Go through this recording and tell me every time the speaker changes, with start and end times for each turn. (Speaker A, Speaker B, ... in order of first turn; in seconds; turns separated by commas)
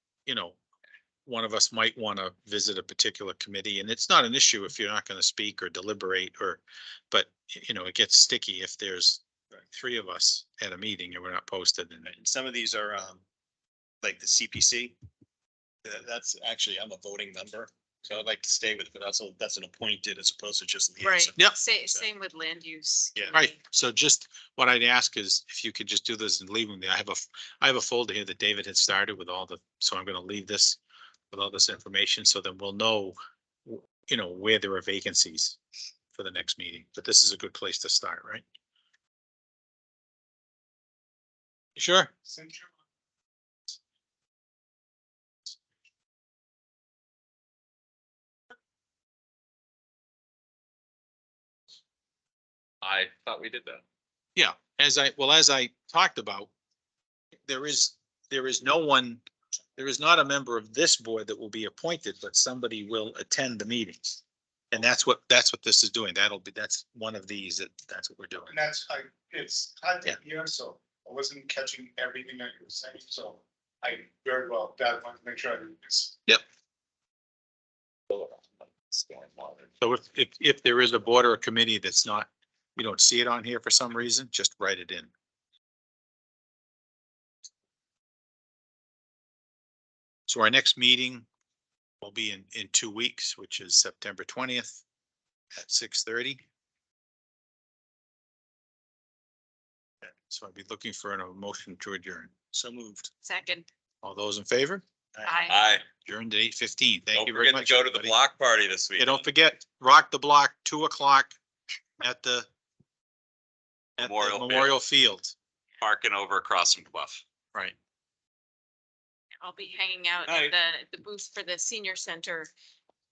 Speaker A: 0.3-0.6, Speaker A: 1.3-12.1, Speaker B: 12.1-13.2, Speaker B: 14.0-15.0, Speaker B: 15.8-22.1, Speaker C: 21.0-23.5, Speaker A: 23.3-30.8, Speaker A: 31.3-35.6, Speaker A: 36.1-38.4, Speaker A: 41.8-42.1, Speaker D: 42.3-42.7, Speaker E: 52.8-53.8, Speaker A: 54.4-56.5, Speaker A: 57.5-59.2, Speaker A: 59.8-68.6, Speaker D: 68.5-76.2, Speaker E: 78.1-79.7, Speaker A: 79.8-85.1, Speaker A: 90.3-91.3, Speaker A: 92.0-94.8, Speaker A: 95.5-96.4, Speaker A: 100.3-102.3, Speaker B: 102.5-103.1, Speaker C: 103.2-103.7, Speaker A: 104.0-104.8, Speaker C: 105.2-105.6, Speaker E: 105.5-105.9, Speaker A: 106.0-108.2, Speaker E: 107.1-109.3, Speaker A: 109.0-111.4, Speaker A: 112.0-112.5, Speaker E: 114.0-114.8, Speaker A: 114.0-115.3, Speaker E: 115.8-117.2, Speaker C: 119.4-122.5, Speaker B: 120.3-120.5